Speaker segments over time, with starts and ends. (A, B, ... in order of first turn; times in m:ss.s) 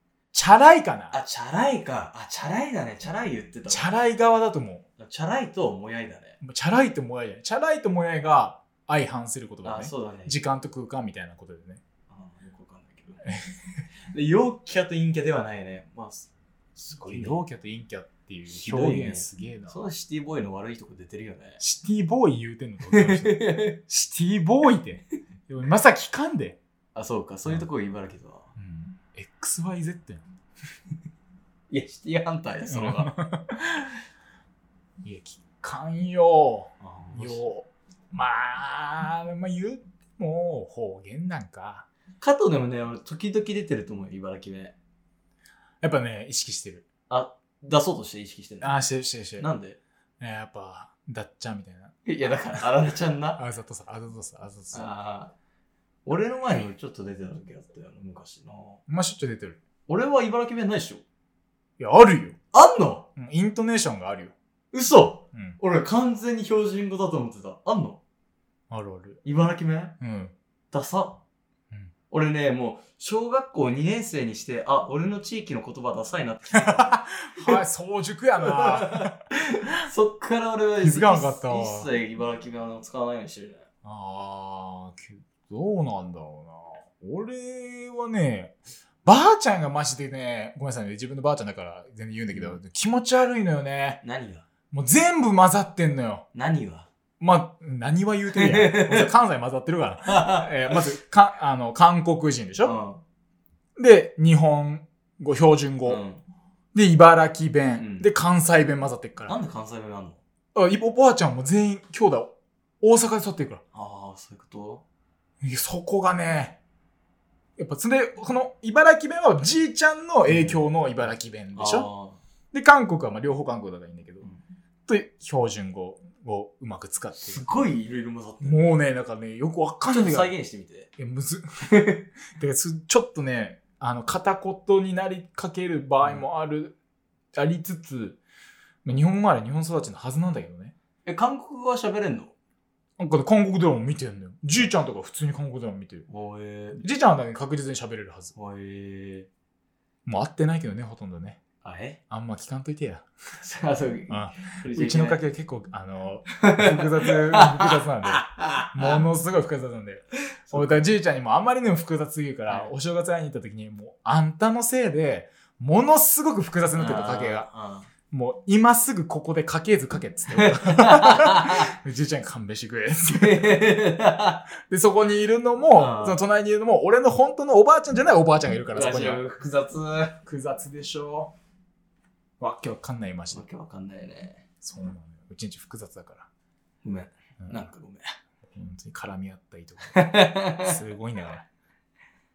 0:00.3-0:01.2 A
0:01.1-0:03.9 B
0:03.7-0:04.8 A
0:05.0-0:06.4 B
0:06.4-0:11.8 A
0:09.6-0:10.4 B
0:12.1-0:13.2 B
0:13.2-0:13.6 A
0:14.1-0:17.4 B
0:16.9-0:19.8 A
0:18.5-0:21.6 B
0:21.6-0:26.6 A
0:22.9-0:23.8 B
0:27.0-0:28.5 B
0:28.6-0:30.3 A
0:31.7-0:33.2 B
0:32.7-0:33.9 A
0:35.0-0:41.9 A
0:36.8-0:37.4 B
0:42.2-0:44.8 B
0:45.8-0:46.8 A
0:47.1-0:48.8 B
0:48.6-0:49.5 A
0:49.4-0:49.8 B
0:50.2-0:52.7 A
0:52.0-0:53.4 B
0:53.4-0:54.9 A
0:54.7-0:55.3 B
0:56.1-0:58.8 B
0:58.9-0:59.6 A
0:59.9-1:01.0 B
1:01.8-1:02.4 A
1:02.5-1:03.1 B
1:03.2-1:04.3 A
1:04.7-1:08.0 B
1:08.7-1:09.2 A
1:09.2-1:10.0 B
1:10.0-1:10.3 A
1:10.7-1:11.2 B
1:12.1-1:17.6 B
1:16.5-1:19.2 A
1:18.4-1:23.7 B
1:20.8-1:21.9 A
1:23.8-1:34.0 A
1:32.3-1:32.6 B
1:34.0-1:34.5 B
1:34.7-1:36.3 A
1:36.3-1:36.9 B
1:37.2-1:42.8 A
1:38.3-1:39.1 B
1:40.1-1:40.8 B
1:42.6-1:43.0 B
1:43.8-1:46.0 A
1:45.9-1:46.2 B
1:46.7-1:49.4 A
1:47.8-1:48.1 B
1:49.3-1:50.2 B
1:50.6-1:53.6 A
1:53.7-1:54.8 B
1:55.4-1:56.6 A
1:57.6-2:01.9 A
2:00.3-2:00.6 B
2:01.5-2:02.2 B
2:02.5-2:04.3 A
2:04.9-2:07.7 A
2:07.2-2:08.7 B
2:08.4-2:10.3 A
2:09.9-2:10.9 B
2:11.0-2:16.8 A
2:16.0-2:16.3 B
2:17.3-2:18.2 A
2:18.8-2:20.7 A
2:21.0-2:22.3 B
2:23.0-2:26.1 A
2:26.1-2:26.8 B
2:26.8-2:28.3 A
2:28.4-2:29.3 B
2:30.1-2:31.4 A
2:31.6-2:32.0 B
2:32.1-2:33.1 A
2:33.4-2:35.2 B
2:34.1-2:47.5 A
2:36.4-2:39.0 B
2:40.4-2:40.8 B
2:42.5-2:42.7 B
2:46.7-2:47.9 B
2:48.1-2:53.8 A
2:50.3-2:51.7 B
2:53.1-2:54.5 B
2:54.6-2:59.3 A
2:55.8-2:56.2 B
2:58.7-3:00.2 B
3:00.2-3:01.3 A
3:02.4-3:03.5 A
3:03.3-3:04.4 B
3:04.6-3:06.3 A
3:06.8-3:08.1 B
3:07.4-3:07.7 A
3:08.5-3:11.5 A
3:09.9-3:10.8 B